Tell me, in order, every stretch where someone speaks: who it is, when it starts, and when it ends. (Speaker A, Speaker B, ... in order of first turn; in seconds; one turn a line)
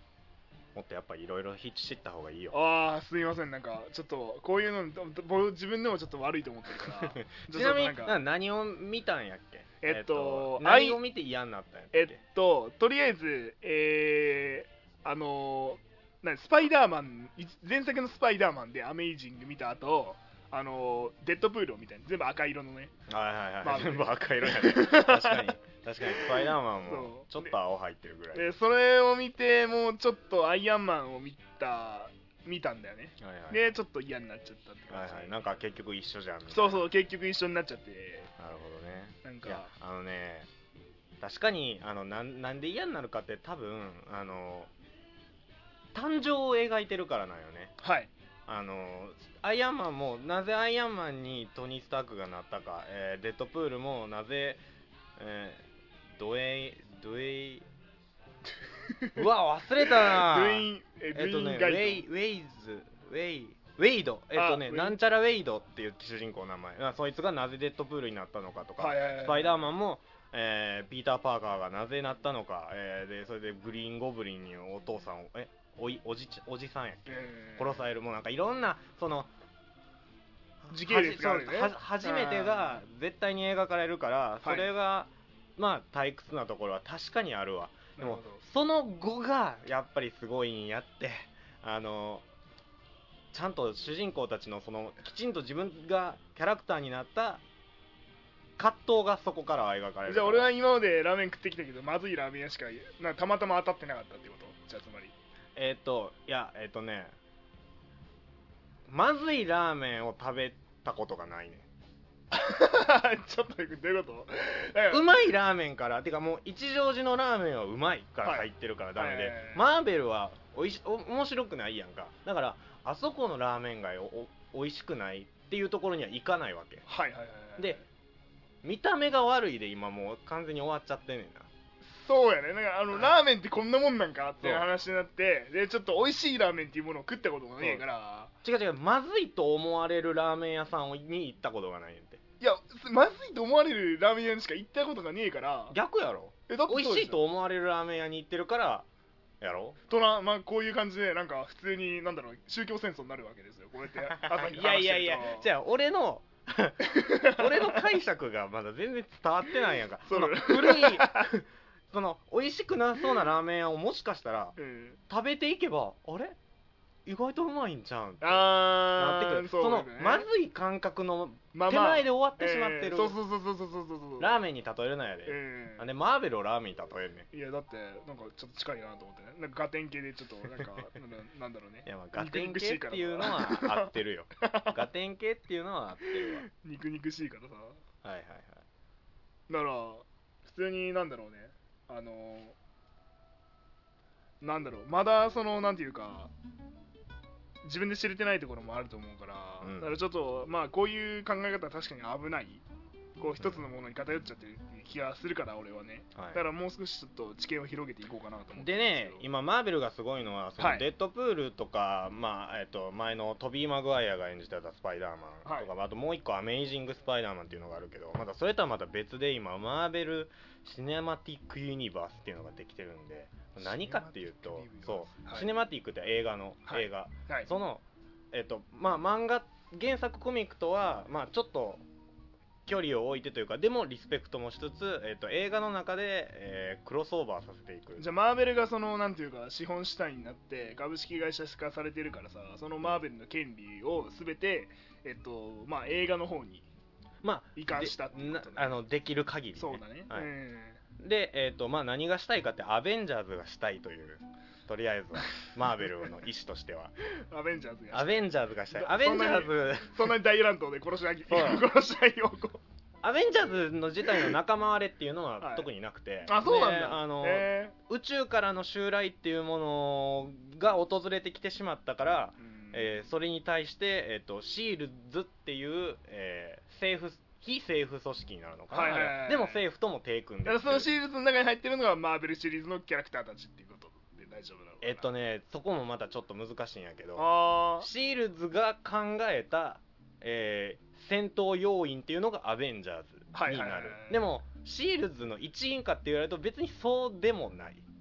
Speaker A: 0.7-2.6
Speaker B: 2.5-8.2
Speaker A: 6.9-12.2
Speaker B: 9.8-11.0
Speaker B: 11.9-22.9
Speaker A: 23.1-28.5
Speaker B: 23.6-25.5
Speaker B: 26.0-27.5
Speaker B: 28.3-35.4
Speaker A: 33.2-33.6
Speaker A: 34.9-36.9
Speaker B: 36.5-38.3
Speaker A: 38.4-40.5
Speaker B: 39.2-39.7
Speaker A: 41.2-44.7
Speaker A: 45.9-47.7
Speaker B: 47.8-48.1
Speaker A: 48.5-54.6
Speaker A: 55.2-55.6
Speaker A: 56.1-57.6
Speaker B: 58.9-59.2
Speaker A: 59.1-79.3
Speaker B: 59.8-62.0
Speaker B: 64.3-65.0
Speaker B: 68.8-69.7
Speaker B: 77.1-77.8
Speaker A: 80.6-92.2
Speaker B: 80.7-82.8
Speaker B: 84.4-84.7
Speaker B: 88.0-88.4
Speaker A: 93.3-97.4
Speaker A: 98.6-100.5
Speaker B: 100.0-105.1
Speaker A: 105.5-107.1
Speaker A: 108.9-111.7
Speaker B: 112.3-115.1
Speaker A: 114.9-126.8
Speaker B: 118.2-119.6
Speaker B: 126.9-127.8
Speaker A: 128.6-131.5
Speaker B: 131.8-138.3
Speaker A: 134.4-134.7
Speaker A: 138.4-142.2
Speaker B: 142.4-145.8
Speaker A: 145.7-148.9
Speaker B: 146.5-147.2
Speaker A: 149.4-149.8
Speaker B: 149.9-155.5
Speaker A: 154.1-164.6
Speaker B: 156.8-157.8
Speaker B: 160.1-161.3
Speaker B: 164.6-165.0
Speaker A: 165.1-166.3
Speaker A: 167.1-173.2
Speaker B: 168.2-170.3
Speaker B: 171.5-174.3
Speaker A: 174.2-177.3
Speaker B: 175.2-175.8
Speaker B: 177.3-184.8
Speaker A: 181.8-186.4
Speaker B: 186.1-187.8
Speaker A: 188.0-188.6
Speaker B: 189.5-192.6
Speaker B: 194.4-196.3
Speaker B: 197.6-202.6
Speaker A: 199.6-199.9
Speaker B: 203.2-209.2
Speaker A: 206.2-206.4
Speaker A: 208.6-231.8
Speaker B: 210.6-210.9
Speaker B: 215.4-215.7
Speaker B: 223.6-225.5
Speaker B: 226.7-227.5
Speaker A: 232.7-238.1
Speaker B: 238.0-246.7
Speaker A: 247.2-250.3
Speaker B: 247.6-248.8
Speaker B: 249.5-250.8
Speaker A: 251.0-256.9
Speaker B: 257.2-262.6
Speaker A: 257.9-260.0
Speaker A: 261.3-261.6
Speaker A: 263.0-280.9
Speaker B: 265.4-265.7
Speaker B: 266.2-267.8
Speaker B: 272.4-273.0
Speaker B: 278.7-279.6
Speaker B: 280.4-285.1
Speaker A: 284.8-297.8
Speaker B: 287.1-287.9
Speaker B: 293.3-294.2